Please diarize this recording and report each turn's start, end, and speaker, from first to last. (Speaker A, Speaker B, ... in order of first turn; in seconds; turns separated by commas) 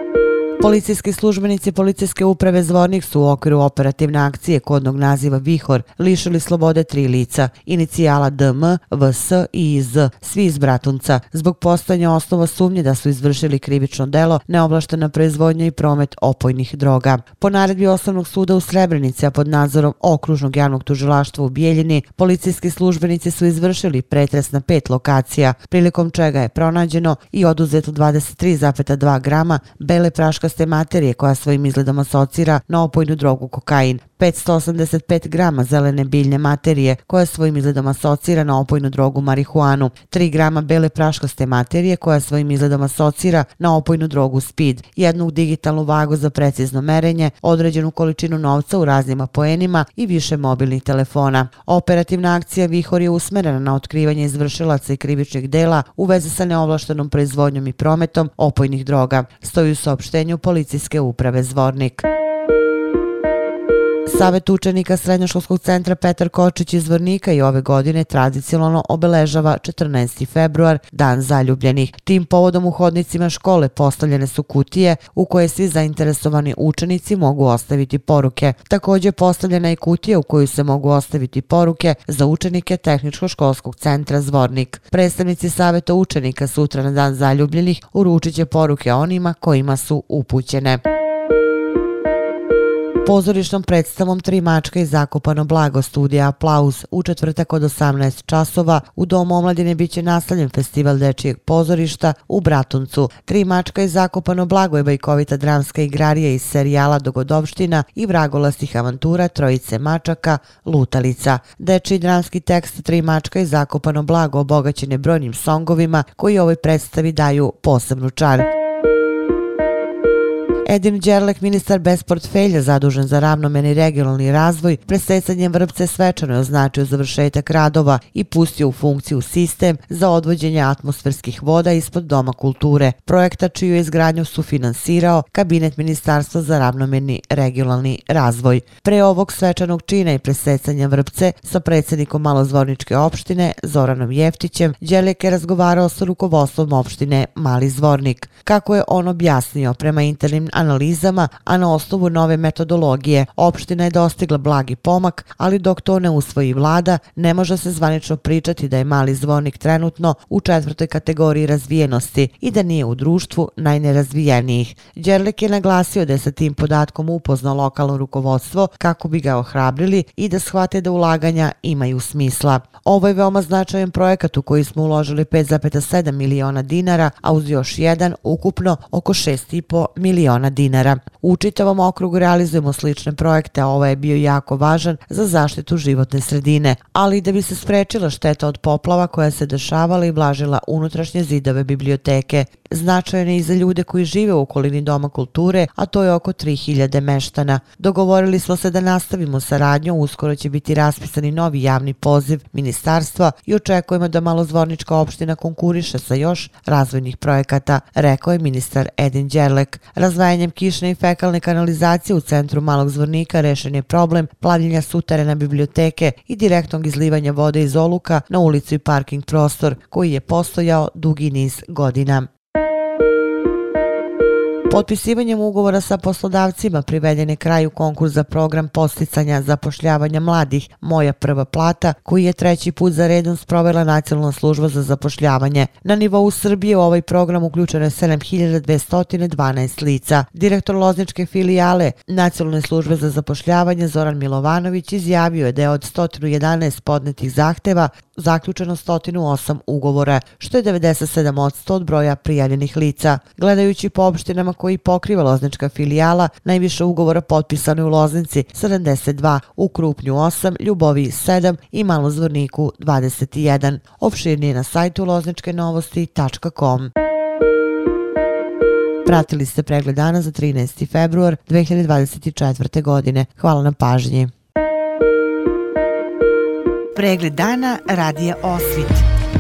Speaker A: 0.6-62.0, Speaker A: 64.1-90.8, Speaker A: 93.0-118.5, Speaker A: 120.7-222.3, Speaker A: 224.7-266.9, Speaker A: 269.1-274.3, Speaker A: 276.9-279.1